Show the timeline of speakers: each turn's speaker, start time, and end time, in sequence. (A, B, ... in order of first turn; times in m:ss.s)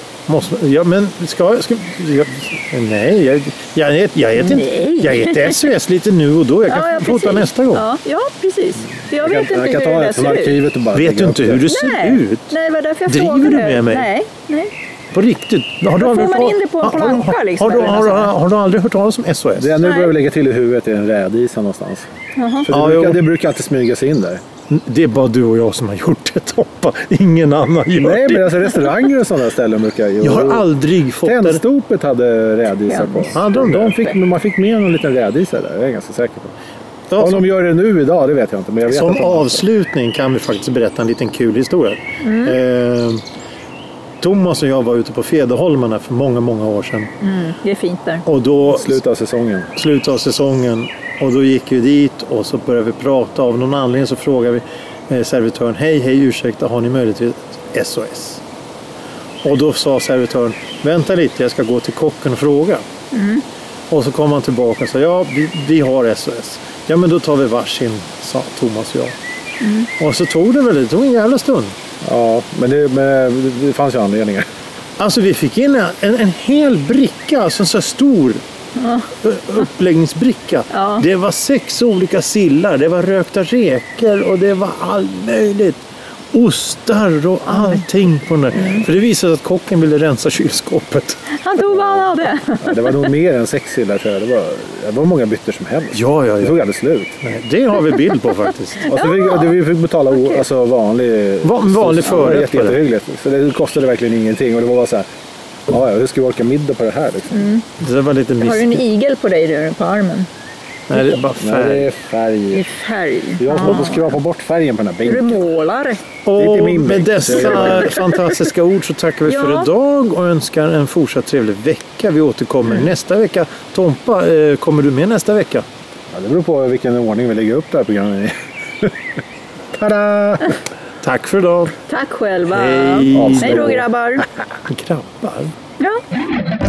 0:00.3-0:07.8 A
0:04.4-0:05.6 B
0:06.7-0:10.6 B
0:09.1-0:11.6 C
0:10.9-0:12.5 A
0:11.7-0:14.7 B
0:13.1-0:14.1 A
0:15.1-0:19.7 A
0:16.0-0:18.3 B
0:19.6-0:22.0 C
0:19.8-0:20.1 B
0:22.4-0:22.7 B
0:22.7-0:24.4 C
0:22.7-0:23.2 A
0:24.7-0:28.9 A
0:27.9-0:30.7 C
0:30.2-0:31.6 A
0:31.2-0:36.5 C
0:32.9-0:33.4 B
0:33.3-0:34.1 A
0:37.1-0:37.5 A
0:37.2-0:39.6 C
0:38.9-0:43.2 A
0:42.2-0:42.6 B
0:44.2-0:47.1 A
0:47.2-0:48.2 B
0:48.2-0:49.0 A
0:48.6-0:49.7 C
0:49.8-0:58.4 A
0:59.4-1:02.8 A
1:03.1-1:03.4 B
1:03.9-1:09.1 A
1:09.6-1:09.9 B
1:10.0-1:11.7 A
1:12.0-1:14.5 C
1:15.0-1:18.4 A
1:18.8-1:19.1 B
1:19.2-1:25.8 A
1:20.7-1:21.0 B
1:26.3-1:31.2 A
1:28.6-1:28.8 B
1:31.3-1:33.0 B
1:32.6-1:37.2 C
1:35.9-1:36.6 A
1:37.2-1:38.9 A
1:38.8-1:39.5 B
1:38.8-1:45.1 C
1:40.1-1:40.4 B
1:41.4-1:42.8 A
1:45.7-1:47.5 C
1:47.3-1:47.6 B
1:47.8-1:48.8 A
1:48.4-1:50.3 B
1:50.9-1:51.9 A
1:51.4-1:52.6 C
1:52.5-1:54.2 B
1:53.4-1:55.5 C
1:55.0-1:56.0 B
1:56.2-2:05.6 A
1:56.4-1:58.0 C
1:59.3-1:59.7 B
2:06.1-2:08.9 C
2:09.7-2:10.6 C
2:11.0-2:11.7 A
2:11.9-2:14.2 B
2:12.5-2:13.8 A
2:13.1-2:13.8 C
2:14.6-2:15.5 A